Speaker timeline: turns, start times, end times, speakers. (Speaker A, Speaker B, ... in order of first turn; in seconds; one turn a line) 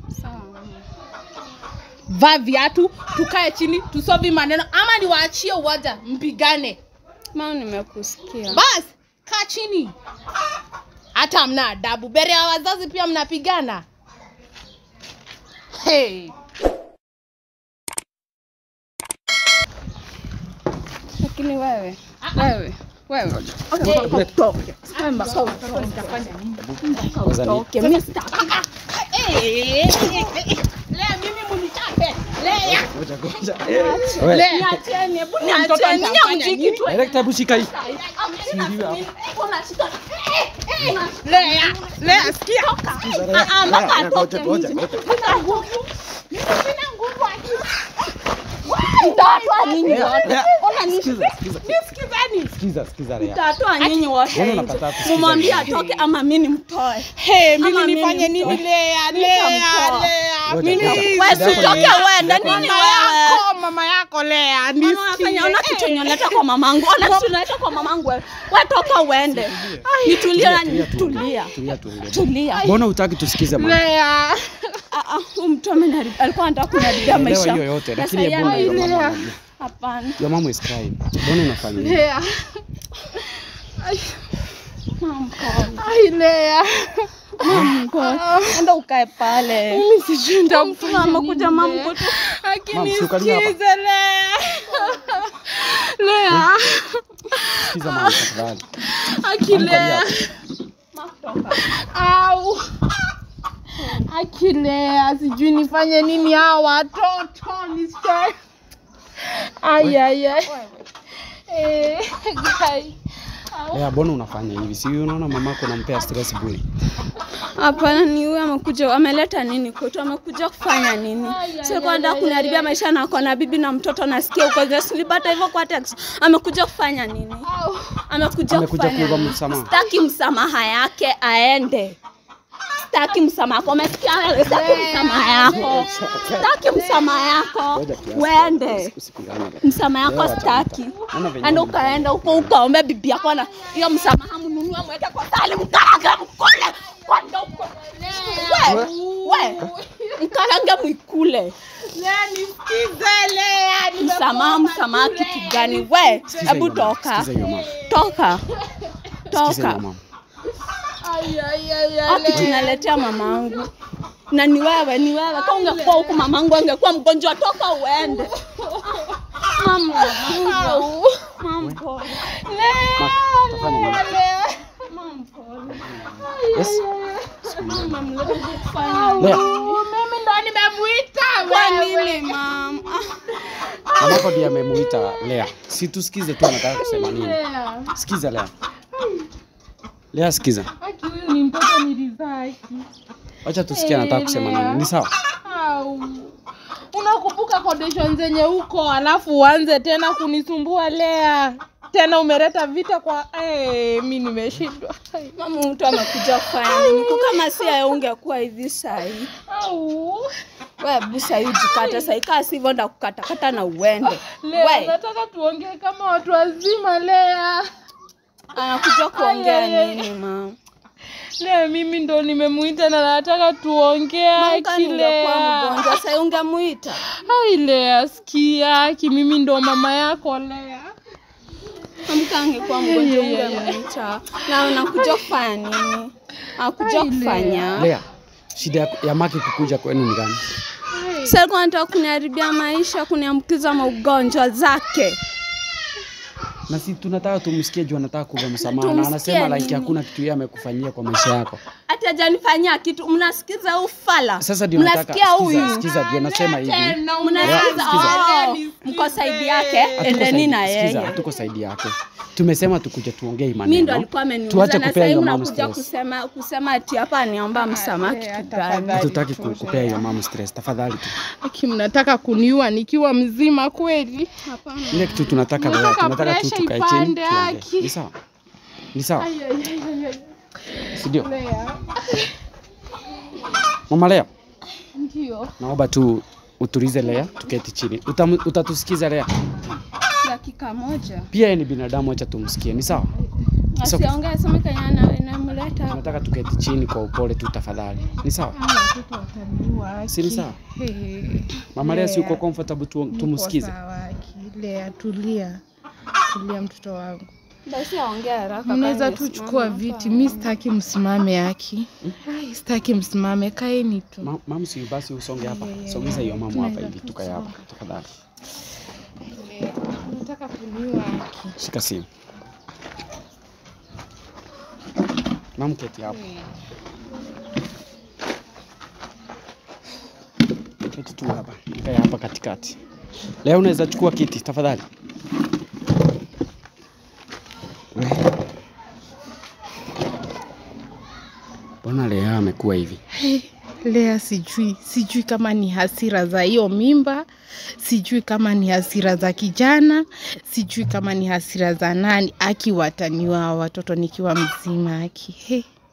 Speaker A: 0.1-0.8
Speaker B: 2.1-6.8
Speaker A: 7.3-8.6
Speaker B: 8.5-9.9
Speaker B: 11.2-13.8
Speaker B: 15.7-16.3
Speaker A: 21.2-26.2
Speaker B: 22.2-22.6
Speaker B: 23.8-24.3
Speaker C: 23.8-24.3
Speaker B: 24.8-27.1
Speaker C: 26.6-27.6
Speaker A: 26.8-28.6
Speaker B: 27.8-32.9
Speaker A: 30.0-30.3
Speaker C: 32.6-34.6
Speaker B: 33.6-34.7
Speaker A: 33.7-45.7
Speaker B: 35.4-36.9
Speaker C: 36.9-37.7
Speaker B: 37.8-38.2
Speaker C: 38.4-39.0
Speaker B: 41.2-48.1
Speaker C: 42.9-45.0
Speaker B: 48.6-52.6
Speaker A: 48.7-50.7
Speaker C: 49.8-51.9
Speaker C: 52.6-53.4
Speaker A: 53.2-60.1
Speaker B: 53.8-56.1
Speaker C: 54.3-55.7
Speaker B: 57.1-66.4
Speaker C: 60.5-62.7
Speaker A: 60.6-63.5
Speaker A: 64.8-71.5
Speaker B: 67.0-67.3
Speaker C: 69.3-73.8
Speaker B: 69.8-70.2
Speaker A: 72.1-72.7
Speaker B: 72.5-72.8
Speaker B: 73.3-74.8
Speaker A: 74.9-79.0
Speaker C: 77.0-79.3
Speaker B: 78.4-79.3
Speaker A: 79.6-80.2
Speaker C: 80.2-82.0
Speaker B: 81.7-82.5
Speaker B: 83.8-84.2
Speaker A: 85.0-85.8
Speaker B: 85.8-88.6
Speaker A: 87.4-89.8
Speaker C: 87.5-87.8
Speaker B: 89.5-98.3
Speaker A: 90.5-92.2
Speaker C: 92.7-93.5
Speaker C: 97.5-98.7
Speaker B: 98.8-100.3
Speaker C: 99.5-100.1
Speaker A: 100.9-101.7
Speaker B: 101.6-102.7
Speaker B: 103.8-108.3
Speaker A: 103.8-104.0
Speaker B: 109.3-113.8
Speaker C: 113.7-116.6
Speaker A: 117.4-127.5
Speaker B: 121.2-122.8
Speaker B: 127.5-128.0
Speaker A: 128.1-132.0
Speaker C: 128.5-129.7
Speaker A: 132.8-138.9
Speaker B: 134.5-135.5
Speaker C: 135.4-136.5
Speaker B: 136.7-137.1
Speaker C: 137.7-142.5
Speaker A: 139.6-149.6
Speaker B: 147.7-150.2
Speaker C: 148.6-148.9
Speaker A: 150.2-151.5
Speaker B: 151.9-156.7
Speaker A: 154.0-157.3
Speaker C: 156.3-157.7
Speaker B: 157.4-159.0
Speaker A: 157.8-158.4
Speaker A: 159.3-159.8
Speaker C: 159.3-160.0
Speaker B: 161.0-163.6
Speaker A: 162.1-163.7
Speaker A: 164.3-168.3
Speaker B: 165.3-166.2
Speaker B: 168.1-169.0
Speaker A: 168.9-172.3
Speaker B: 169.9-171.3
Speaker B: 172.2-174.8
Speaker C: 172.9-174.0
Speaker A: 174.8-175.9
Speaker C: 176.0-176.8
Speaker B: 176.2-177.7
Speaker C: 177.5-178.1
Speaker A: 177.5-179.8
Speaker B: 178.3-182.4
Speaker A: 181.4-183.2
Speaker B: 183.4-185.3
Speaker C: 184.0-187.4
Speaker B: 186.4-187.9
Speaker C: 187.9-188.5
Speaker B: 188.9-189.2
Speaker C: 190.1-190.7
Speaker B: 190.8-192.8
Speaker C: 193.4-195.1
Speaker B: 193.7-196.3
Speaker B: 196.9-205.3
Speaker A: 205.3-209.3
Speaker B: 206.6-207.8
Speaker B: 209.4-210.3
Speaker A: 210.8-214.9
Speaker B: 211.6-212.1
Speaker B: 214.1-217.7
Speaker A: 218.5-220.5
Speaker B: 219.1-220.1
Speaker B: 221.4-226.0
Speaker A: 224.3-227.0
Speaker B: 227.2-230.9
Speaker A: 232.0-237.9
Speaker B: 232.6-233.8
Speaker B: 234.8-235.2
Speaker B: 236.8-237.8
Speaker C: 237.7-240.4
Speaker B: 240.9-241.3
Speaker A: 241.2-245.2
Speaker C: 246.7-251.6
Speaker A: 248.6-249.9
Speaker A: 251.9-255.8
Speaker C: 254.4-258.2
Speaker B: 255.8-260.2
Speaker A: 257.2-261.2
Speaker C: 260.0-265.8
Speaker A: 263.6-269.1
Speaker B: 267.5-270.1
Speaker C: 268.9-271.1
Speaker B: 271.2-274.3
Speaker A: 274.4-275.2
Speaker C: 274.9-278.1
Speaker B: 275.2-277.9
Speaker C: 278.9-279.3
Speaker B: 279.2-282.3
Speaker C: 280.9-281.3
Speaker C: 283.9-284.3
Speaker B: 284.9-285.5
Speaker C: 285.6-289.3
Speaker A: 290.2-291.3
Speaker C: 291.3-293.1
Speaker A: 293.7-296.2
Speaker C: 293.8-294.1
Speaker C: 295.9-298.6
Speaker B: 298.5-302.4
Speaker C: 300.1-300.6
Speaker C: 301.7-303.7
Speaker B: 303.1-305.6
Speaker B: 306.2-307.3
Speaker A: 307.7-310.5
Speaker B: 308.6-314.3
Speaker C: 314.2-318.1
Speaker B: 315.4-317.6
Speaker B: 319.3-321.6
Speaker C: 321.6-322.1
Speaker C: 325.6-326.2
Speaker B: 326.1-326.5
Speaker C: 330.9-332.8
Speaker C: 333.4-334.9
Speaker C: 337.9-338.3
Speaker C: 341.8-343.0
Speaker B: 343.1-347.2
Speaker B: 347.8-355.6